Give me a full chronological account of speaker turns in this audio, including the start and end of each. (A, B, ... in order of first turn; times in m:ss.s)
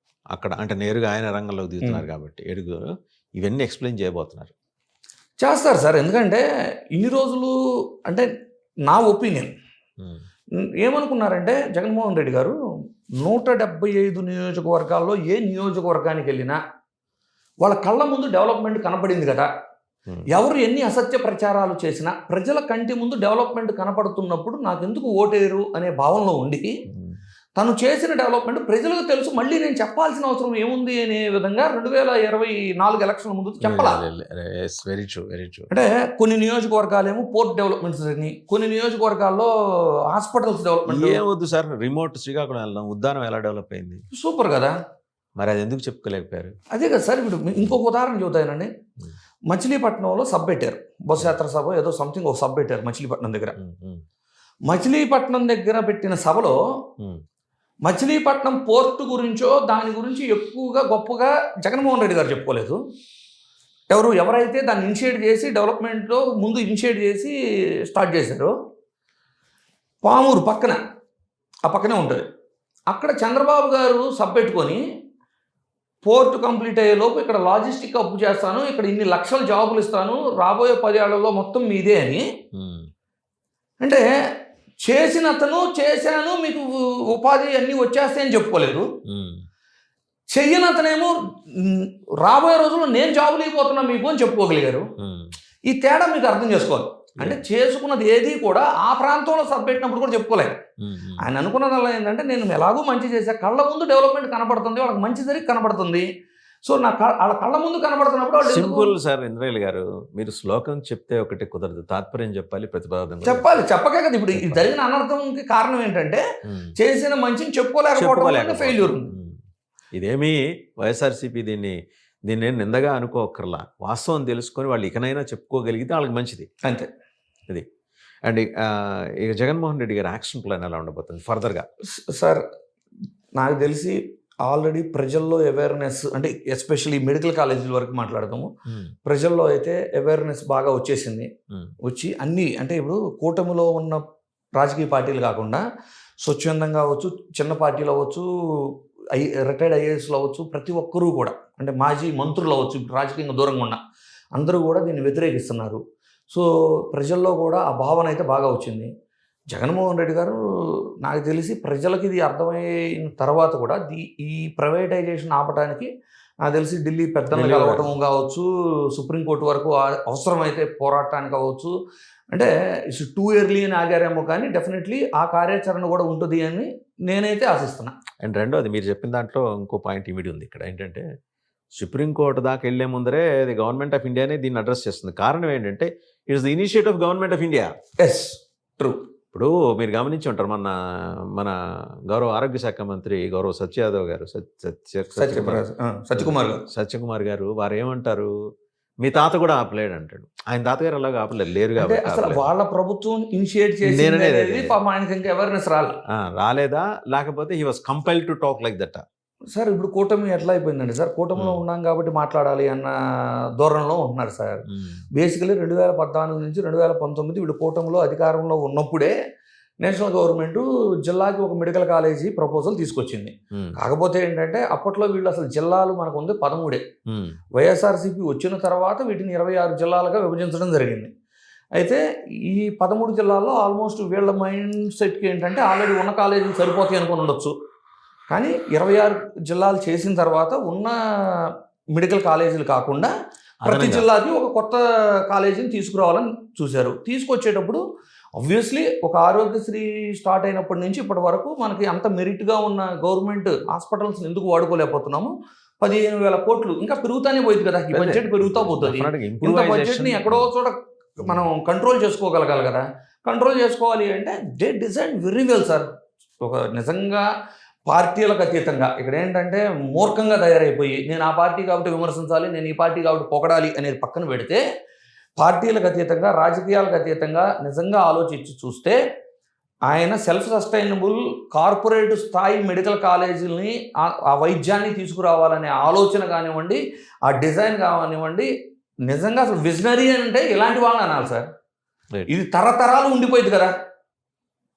0:00.3-0:04.5 A
0:05.4-0:06.4 B
0:07.0-0:07.5 B
0:08.9-0:09.5 B
0:10.8-0:12.5 B
0:13.2-0:16.6 B
0:17.6-0:19.5 B
0:20.3-0:26.7 B
0:26.9-0:27.2 A
0:27.6-0:34.0 B
0:33.6-0:35.7 A
0:35.7-0:41.2 B
0:40.9-0:44.0 A
0:44.1-0:44.8 B
0:45.4-0:46.5 A
0:46.7-0:48.7 B
0:49.5-0:53.5 B
0:53.6-0:54.0 A
0:54.7-0:56.6 B
0:57.9-1:02.8 B
1:03.9-1:07.3 B
1:07.9-1:08.5 B
1:10.0-1:10.8 B
1:11.7-1:12.2 B
1:12.9-1:14.8 B
1:16.0-1:22.2 B
1:22.5-1:22.9 A
1:24.9-1:28.9 B
1:29.1-1:29.4 A
1:30.3-1:34.9 B
1:35.0-1:35.3 A
1:35.7-1:40.6 B
1:40.8-1:41.2 A
1:41.2-1:46.0 B
1:46.6-1:48.9 B
1:48.4-1:53.5 A
1:53.2-1:56.2 B
1:54.4-1:54.7 A
1:56.5-1:56.8 A
1:56.8-1:59.1 B
1:58.0-1:59.4 A
2:00.0-2:01.8 A
2:02.3-2:06.5 A
2:08.2-2:11.7 A
2:12.1-2:12.4 B
2:13.4-2:18.5 B
2:18.7-2:18.9 A
2:19.0-2:21.3 B
2:21.8-2:24.0 B
2:24.6-2:25.6 B
2:26.2-2:33.8 B
2:34.4-2:38.9 B
2:39.5-2:40.4 B
2:41.0-2:45.9 B
2:46.5-2:51.7 B
2:47.3-2:47.9 A
2:52.3-2:57.9 B
2:58.2-3:01.0 A
3:01.8-3:07.7 A
3:08.0-3:09.0 B
3:09.3-3:10.8 A
3:12.1-3:15.6 A
3:15.2-3:16.6 B
3:16.2-3:18.3 A
3:19.0-3:22.4 A
3:21.8-3:26.0 B
3:23.8-3:24.7 A
3:26.2-3:29.0 A
3:29.5-3:32.9 B
3:33.6-3:39.1 B
3:34.8-3:35.0 A
3:39.8-3:46.8 B
3:47.1-3:47.4 A
3:47.5-3:51.1 B
3:51.8-3:57.5 B
3:58.3-4:01.4 B
4:02.0-4:03.1 B
4:03.6-4:04.0 A
4:03.6-4:07.8 B
4:08.4-4:25.9 B
4:17.9-4:20.5 A
4:26.4-4:27.3 B
4:27.9-4:34.6 B
4:35.4-4:39.0 B
4:39.9-4:48.5 B
4:49.1-4:51.5 B
4:52.3-4:53.7 B